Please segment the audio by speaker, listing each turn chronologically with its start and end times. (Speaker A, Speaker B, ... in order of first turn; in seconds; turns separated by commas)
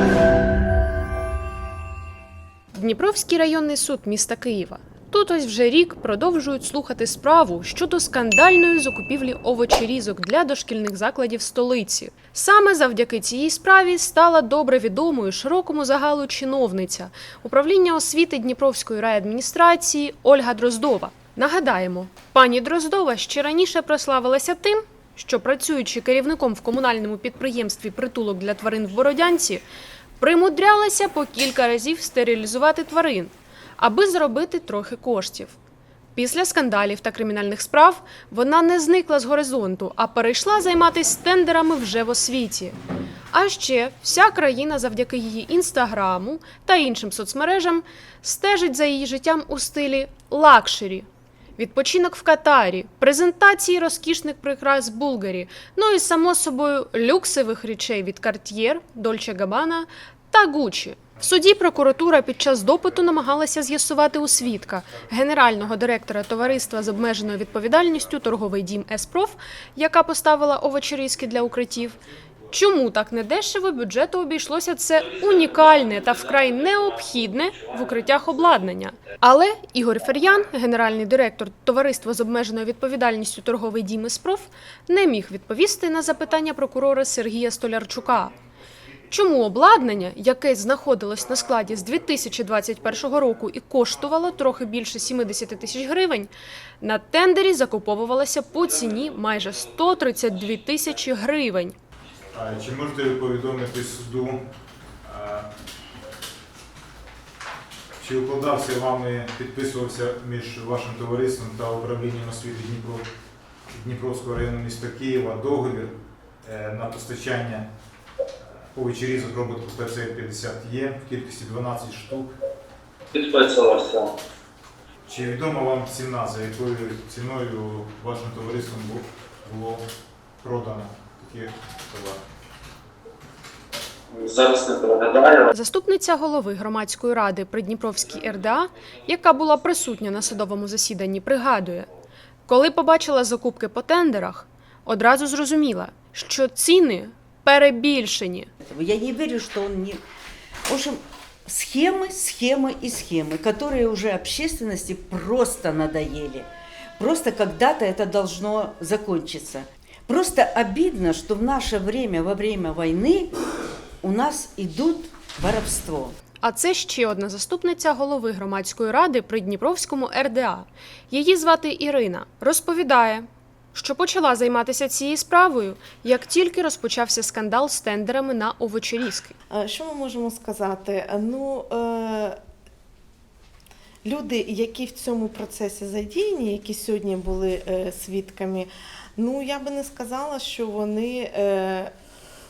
Speaker A: 2.7-29.6, Speaker A: 30.2-35.6, Speaker A: 36.1-42.8, Speaker A: 43.3-51.0, Speaker A: 51.6-72.0, Speaker A: 72.5-88.4, Speaker B: 75.0-78.1, Speaker A: 89.1-101.8, Speaker C: 102.3-104.4, Speaker C: 105.0-105.5, Speaker C: 108.0-113.0, Speaker C: 113.7-117.7, Speaker C: 118.7-122.3, Speaker B: 123.1-124.1, Speaker C: 125.1-129.8, Speaker C: 130.4-132.2, Speaker B: 134.1-135.5, Speaker A: 135.5-141.9, Speaker A: 142.5-148.5, Speaker D: 148.7-150.0, Speaker D: 150.7-156.5, Speaker D: 157.0-163.3, Speaker D: 164.0-166.1, Speaker A: 166.4-179.3, Speaker E: 179.5-182.4, Speaker E: 184.0-191.9